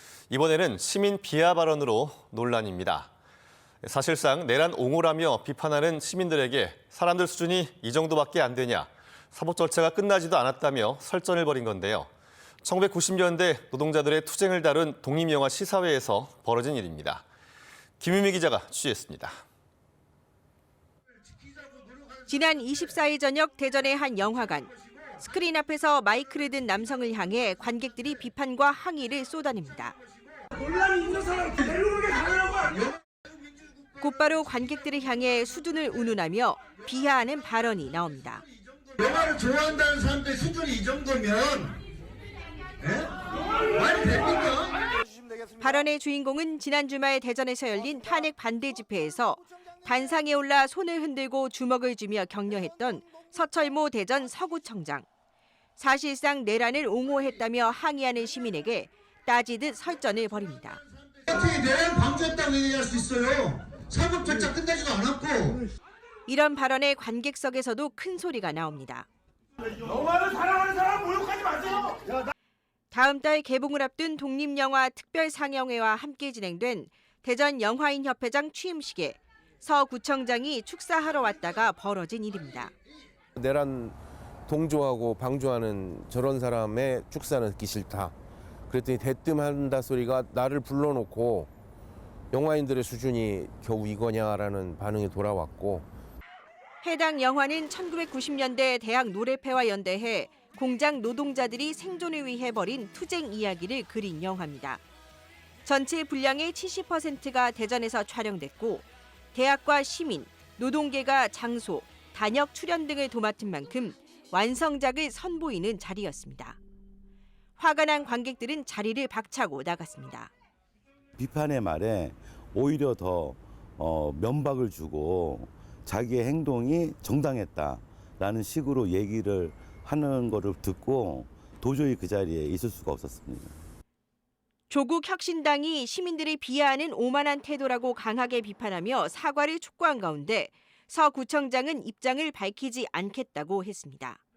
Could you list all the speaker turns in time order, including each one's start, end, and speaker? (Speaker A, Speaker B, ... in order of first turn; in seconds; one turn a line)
Speaker A: 0.3-3.1
Speaker A: 3.8-12.1
Speaker A: 12.6-17.2
Speaker A: 18.0-19.3
Speaker B: 22.3-30.0
Speaker C: 30.6-32.6
Speaker B: 34.0-38.5
Speaker D: 39.0-41.8
Speaker D: 42.8-44.8
Speaker B: 45.6-55.0
Speaker B: 55.8-60.8
Speaker D: 61.3-65.7
Speaker B: 66.3-69.1
Speaker C: 69.9-71.8
Speaker B: 72.9-82.7
Speaker E: 83.4-84.0
Speaker E: 84.5-88.1
Speaker E: 88.7-91.5
Speaker E: 92.3-95.9
Speaker B: 96.8-104.8
Speaker B: 105.6-116.6
Speaker B: 117.6-120.3
Speaker F: 121.2-133.6
Speaker B: 134.7-144.2